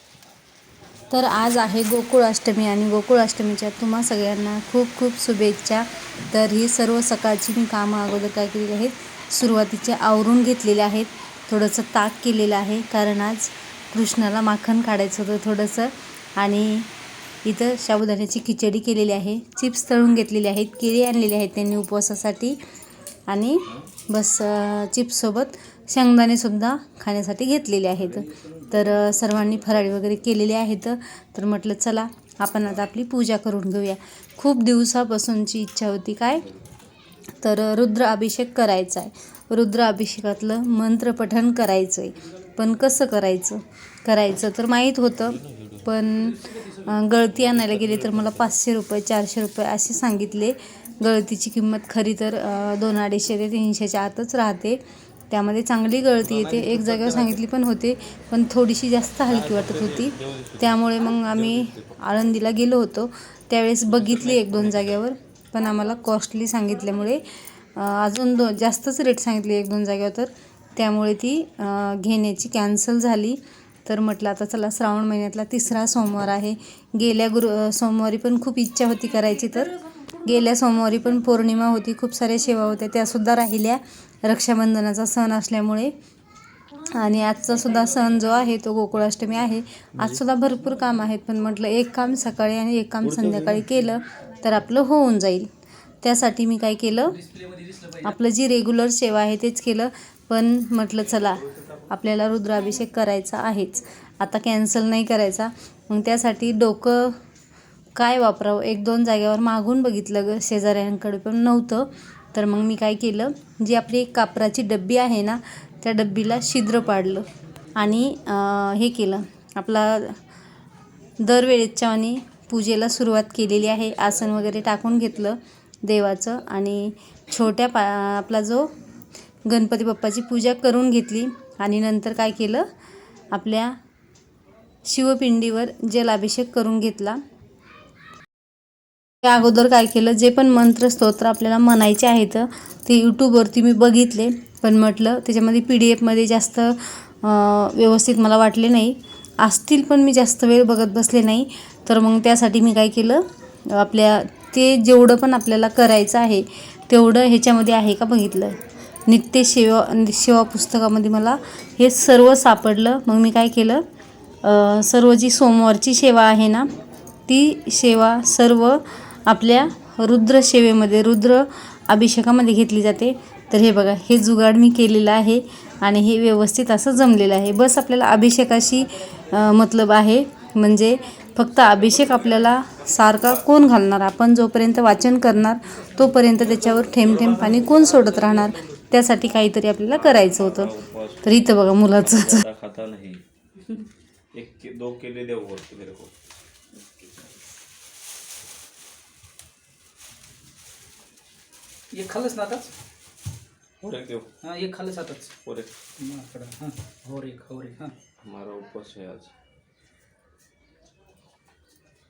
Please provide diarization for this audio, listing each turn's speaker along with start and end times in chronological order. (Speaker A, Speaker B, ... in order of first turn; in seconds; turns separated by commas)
Speaker A: 1.1-16.9, Speaker A: 17.4-22.6, Speaker A: 23.3-36.5, Speaker A: 37.4-85.9, Speaker B: 45.5-45.8, Speaker B: 47.5-47.9, Speaker B: 56.3-57.3, Speaker B: 59.3-61.8, Speaker B: 64.0-64.9, Speaker A: 86.8-95.5, Speaker B: 93.2-93.7, Speaker A: 96.0-97.2, Speaker C: 97.2-98.0, Speaker A: 98.0-107.2, Speaker A: 108.0-120.2, Speaker A: 121.2-128.7, Speaker A: 129.4-132.7, Speaker A: 133.3-133.8, Speaker A: 134.8-137.2, Speaker A: 139.2-163.8, Speaker A: 164.4-166.7, Speaker A: 167.3-192.4, Speaker B: 186.8-188.6, Speaker B: 190.1-193.2, Speaker B: 194.3-196.1, Speaker C: 201.9-202.7, Speaker B: 203.8-204.3, Speaker C: 204.4-205.4, Speaker B: 205.4-205.8, Speaker C: 206.0-207.9, Speaker B: 208.2-209.3